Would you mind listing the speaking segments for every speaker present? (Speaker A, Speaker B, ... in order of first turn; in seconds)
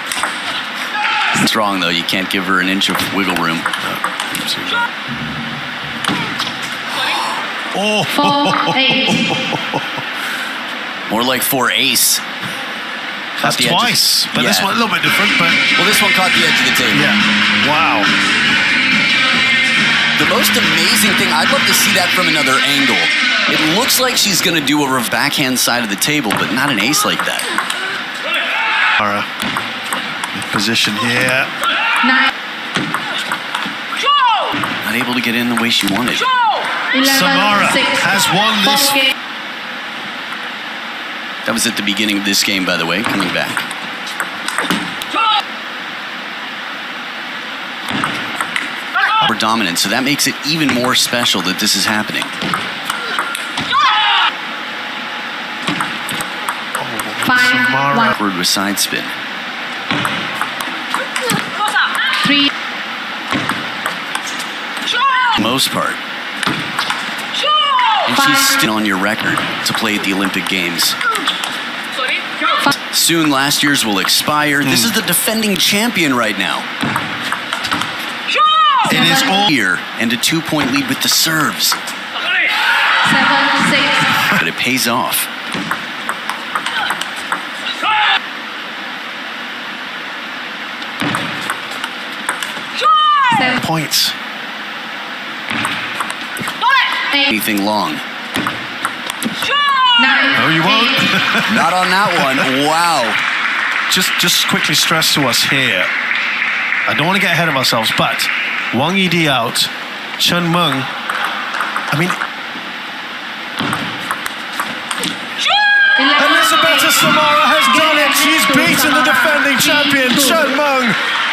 Speaker A: 1.4-3.7, 11.1-12.2, 13.4-14.7, 15.8-17.1, 20.2-27.5, 34.8-36.3, 41.4-43.6, 49.3-52.4, 57.9-59.2, 65.4-66.0, 68.0-71.0, 72.7-76.7, 78.9-81.8, 84.4-85.3, 97.2-98.0, 101.5-103.2
Speaker B: 3.8-4.9, 7.7-9.8, 13.4-15.6, 16.9-18.1, 29.0-29.3, 30.3-31.5, 37.0-39.1, 56.8-58.1, 74.6-74.9, 78.9-79.5, 93.3-94.2, 100.3-102.4, 103.9-105.9, 106.9-110.9, 111.9-112.2, 116.0-121.0
Speaker C: 8.1-9.2, 57.3-57.9, 62.2-62.5, 78.9-79.2, 83.0-84.1, 100.0-100.7, 116.0-116.7, 117.8-120.3